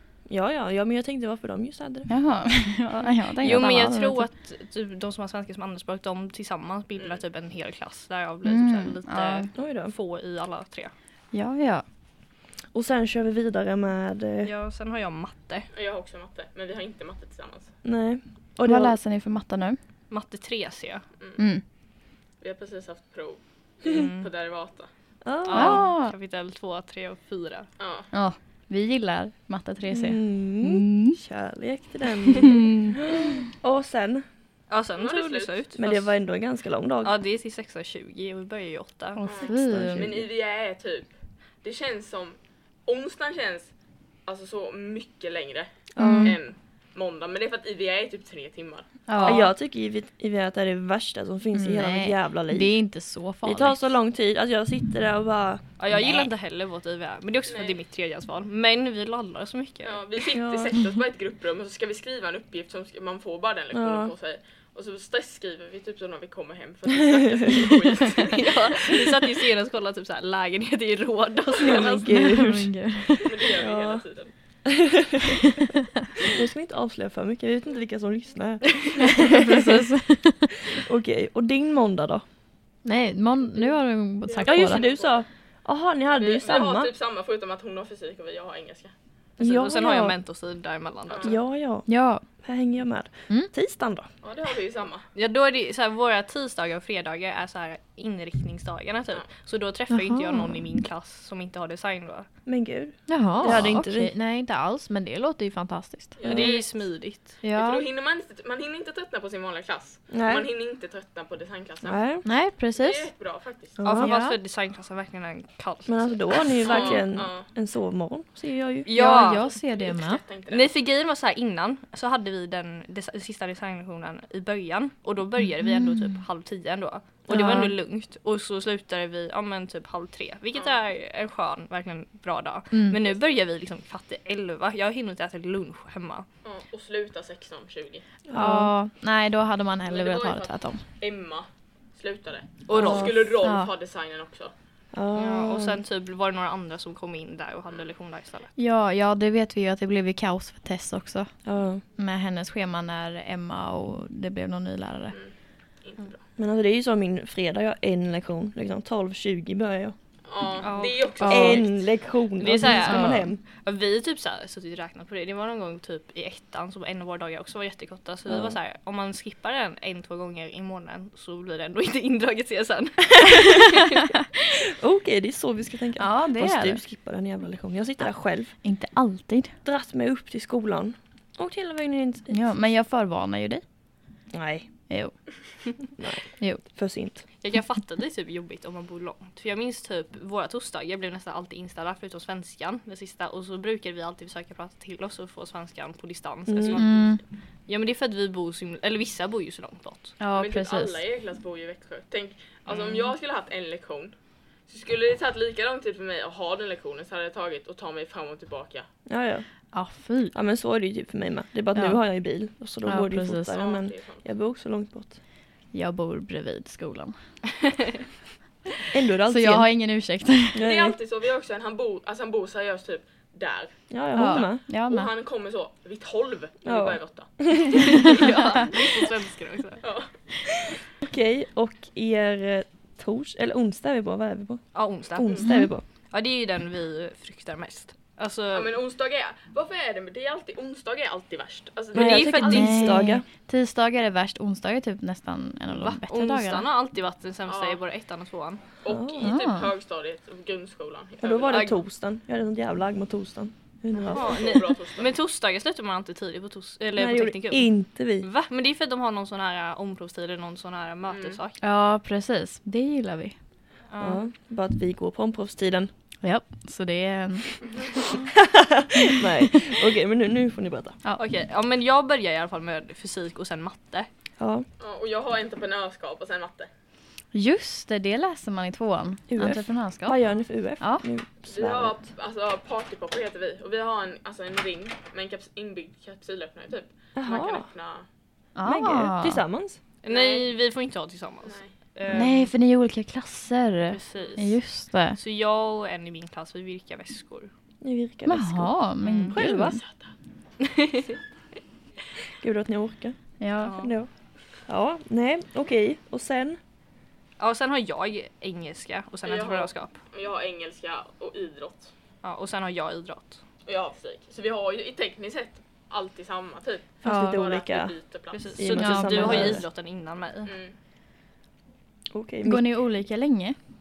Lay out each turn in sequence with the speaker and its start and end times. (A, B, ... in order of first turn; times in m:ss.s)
0:00.3-0:02.1 A
0:02.1-0:04.3 B
0:03.4-0:10.9 C
0:07.0-0:07.2 D
0:08.4-0:09.5 B
0:09.6-0:09.9 A
0:11.3-0:11.8 B
0:12.7-0:14.5 A
0:14.4-0:15.7 C
0:15.7-0:17.7 D
0:17.8-0:19.0 A
0:18.6-0:19.8 B
0:20.1-0:21.0 C
0:21.2-0:21.4 D
0:21.4-0:21.6 B
0:22.4-0:24.9 D
0:23.9-0:24.3 C
0:25.2-0:25.9 A
0:25.5-0:27.7 C
0:25.5-0:26.1 B
0:27.8-0:28.1 D
0:28.1-0:31.2 B
0:29.9-0:34.2 A
0:32.4-0:33.0 B
0:34.7-0:36.2 C
0:35.0-0:35.6 D
0:35.8-0:37.2 A
0:37.0-0:39.6 C
0:39.2-0:40.1 B
0:39.2-0:43.7 D
0:39.6-0:40.2 A
0:44.3-0:49.4 D
0:45.9-0:46.4 A
0:46.0-0:46.4 B
0:49.1-0:49.5 B
0:49.2-0:52.8 A
0:51.5-0:53.9 B
0:53.4-0:55.6 A
0:55.8-1:00.0 C
0:55.9-0:56.3 B
0:57.5-0:57.8 D
0:59.8-1:09.0 D
1:00.3-1:00.8 A
1:03.7-1:04.1 A
1:08.2-1:12.4 C
1:11.6-1:12.7 A
1:11.7-1:13.4 B
1:13.2-1:14.3 D
1:13.6-1:14.0 A
1:14.7-1:15.4 A
1:16.3-1:19.8 A
1:19.2-1:20.8 B
1:20.7-1:22.2 A
1:22.8-1:24.9 B
1:24.2-1:25.2 D
1:24.5-1:26.9 A
1:26.1-1:28.9 D
1:29.4-1:30.2 A
1:29.4-1:31.4 C
1:31.1-1:31.4 D
1:31.2-1:34.1 A
1:31.9-1:32.2 B
1:34.2-1:35.1 D
1:35.2-1:42.3 C
1:39.9-1:40.6 B
1:42.5-1:44.1 A
1:43.1-1:46.2 B
1:46.2-1:46.9 D
1:46.2-1:47.4 C
1:46.3-1:46.5 A
1:47.4-1:47.8 B
1:47.5-1:52.0 D
1:50.1-1:50.5 A
1:51.8-1:52.2 A
1:52.2-1:53.1 B
1:52.7-1:53.8 D
1:53.8-1:54.1 A
1:53.8-1:57.0 C
1:54.0-1:54.4 B
1:55.9-1:58.9 A
1:56.6-1:57.5 D
1:58.9-1:59.5 C
1:58.9-2:00.2 B
1:59.0-2:00.7 D
2:00.5-2:16.3 C
2:05.4-2:06.2 B
2:07.3-2:07.7 A
2:07.3-2:07.7 B
2:10.5-2:10.8 D
2:12.7-2:13.0 B
2:13.0-2:13.4 D
2:16.4-2:18.0 D
2:18.3-2:18.7 A
2:18.3-2:20.8 B
2:19.9-2:24.5 D
2:22.7-2:23.3 C
2:22.8-2:23.1 A
2:22.8-2:23.7 B
2:24.9-2:25.8 A
2:25.2-2:28.5 C
2:28.6-2:31.3 B
2:31.4-2:31.8 A
2:32.0-2:35.2 B
2:35.1-2:36.2 D
2:36.4-2:40.0 A
2:40.3-2:41.9 D
2:40.6-2:41.4 C
2:41.2-2:41.6 B
2:41.2-2:43.4 A
2:42.4-2:54.2 C
2:42.9-2:43.3 B
2:48.3-2:48.6 A
2:54.7-2:58.6 A
2:56.0-2:56.8 B
2:58.6-2:59.6 B
2:59.6-3:02.6 A
3:02.3-3:03.6 B
3:04.3-3:04.7 A
3:04.9-3:05.8 B
3:06.0-3:07.3 A
3:07.4-3:20.2 C
3:16.5-3:16.8 A
3:16.7-3:17.2 B
3:20.2-3:21.0 B
3:20.3-3:24.2 D
3:22.7-3:23.1 C
3:24.7-3:28.9 D
3:29.1-3:29.5 A
3:29.7-3:30.3 B
3:30.3-3:35.2 A
3:31.7-3:32.0 B
3:32.9-3:33.6 B
3:33.5-3:34.2 D
3:35.7-3:37.2 B
3:38.9-3:39.7 A
3:39.3-3:40.6 B
3:40.6-3:41.0 A
3:40.6-3:43.7 D
3:43.9-3:44.6 A
3:44.2-3:45.1 B
3:44.9-3:48.8 D
3:46.6-3:47.9 A
3:47.7-3:49.8 C
3:49.8-3:50.2 D
3:51.0-3:55.8 A
3:54.8-3:55.3 C
3:55.4-3:55.7 B
3:56.1-3:58.8 C
3:58.5-4:02.9 D
4:01.9-4:02.7 C
4:01.9-4:03.2 A
4:02.4-4:06.7 B
4:05.7-4:08.6 C
4:07.5-4:07.8 D
4:08.8-4:11.8 D
4:08.9-4:09.3 A
4:09.2-4:09.7 B
4:11.2-4:14.6 A
4:11.5-4:11.8 C
4:14.0-4:15.2 D
4:14.1-4:21.6 C
4:17.0-4:18.3 A
4:21.1-4:21.4 D
4:21.6-4:23.4 B
4:23.9-4:24.3 C
4:24.0-4:25.9 A
4:26.2-4:27.5 B
4:27.6-4:27.9 D
4:28.4-4:31.0 A
4:29.2-4:29.7 B
4:31.2-4:34.1 C
4:34.4-4:34.7 A
4:34.8-4:36.7 D
4:37.3-4:40.2 B
4:39.3-4:42.1 A
4:41.5-4:48.1 D
4:47.2-4:47.7 A
4:48.6-4:49.4 B
4:48.6-4:49.8 A
4:50.0-4:52.5 C
4:50.1-4:50.5 D
4:51.4-4:52.3 D
4:52.1-4:55.2 B
4:53.9-4:57.5 C
4:54.1-4:54.4 D
4:57.8-4:59.8 A
4:58.3-4:59.8 B
4:59.0-4:59.4 C
4:59.7-5:00.1 D
5:00.8-5:01.2 C
5:02.4-5:04.1 A
5:03.4-5:03.8 B
5:03.6-5:03.9 C
5:04.7-5:06.6 A
5:07.4-5:10.0 C
5:09.2-5:11.9 D
5:12.2-5:13.4 C
5:13.6-5:18.6 D
5:17.0-5:18.0 A
5:17.0-5:17.4 B
5:18.3-5:20.6 C
5:18.6-5:19.6 A
5:18.8-5:19.6 B
5:20.5-5:20.8 D
5:22.1-5:22.8 A
5:22.4-5:23.6 B